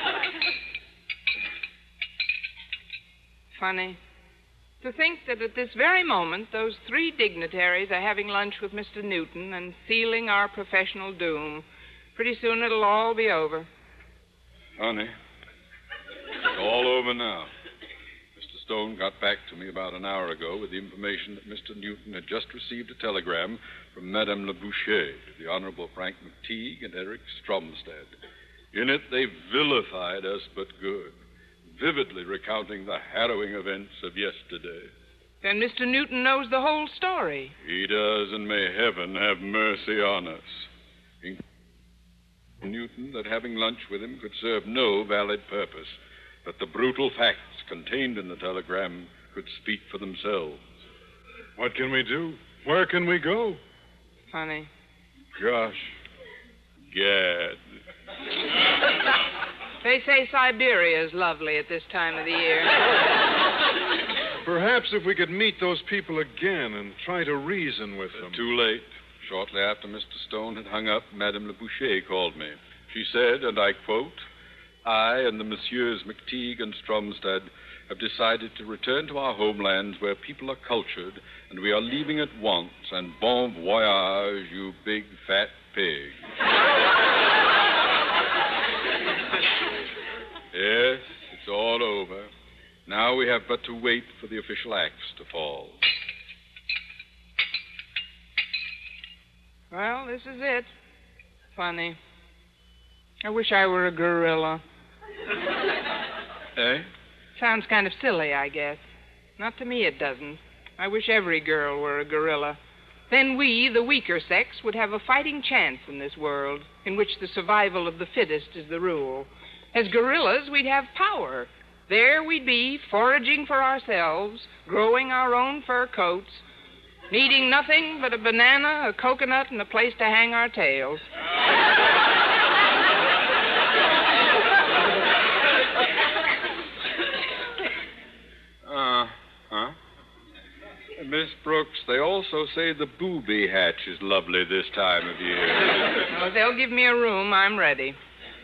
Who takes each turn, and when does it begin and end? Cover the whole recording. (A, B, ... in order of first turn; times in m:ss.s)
0:03.6-0:04.0 A
0:04.8-0:11.6 A
0:12.2-0:13.7 A
0:14.8-0:15.1 B
0:16.5-0:17.5 B
0:18.4-0:28.2 B
0:28.7-0:31.2 B
0:31.7-0:34.9 B
0:35.4-0:37.6 A
0:37.6-0:40.7 B
0:42.6-0:50.6 B
0:51.6-0:53.6 C
0:54.3-0:54.7 A
0:55.4-0:56.0 B
0:56.9-0:57.6 B
0:59.8-1:02.7 A
1:04.4-1:08.4 C
1:08.2-1:14.2 B
1:14.8-1:26.2 B
1:30.5-1:32.3 B
1:32.9-1:35.8 B
1:39.7-1:40.7 A
1:41.6-1:42.0 A
1:43.2-1:44.6 A
1:46.6-1:46.9 B
1:47.4-1:48.8 A
1:49.4-1:52.6 A
1:53.1-2:06.4 A
2:07.1-2:11.0 A
2:18.6-2:19.8 B
2:21.0-2:25.9 B
2:26.1-2:28.0 A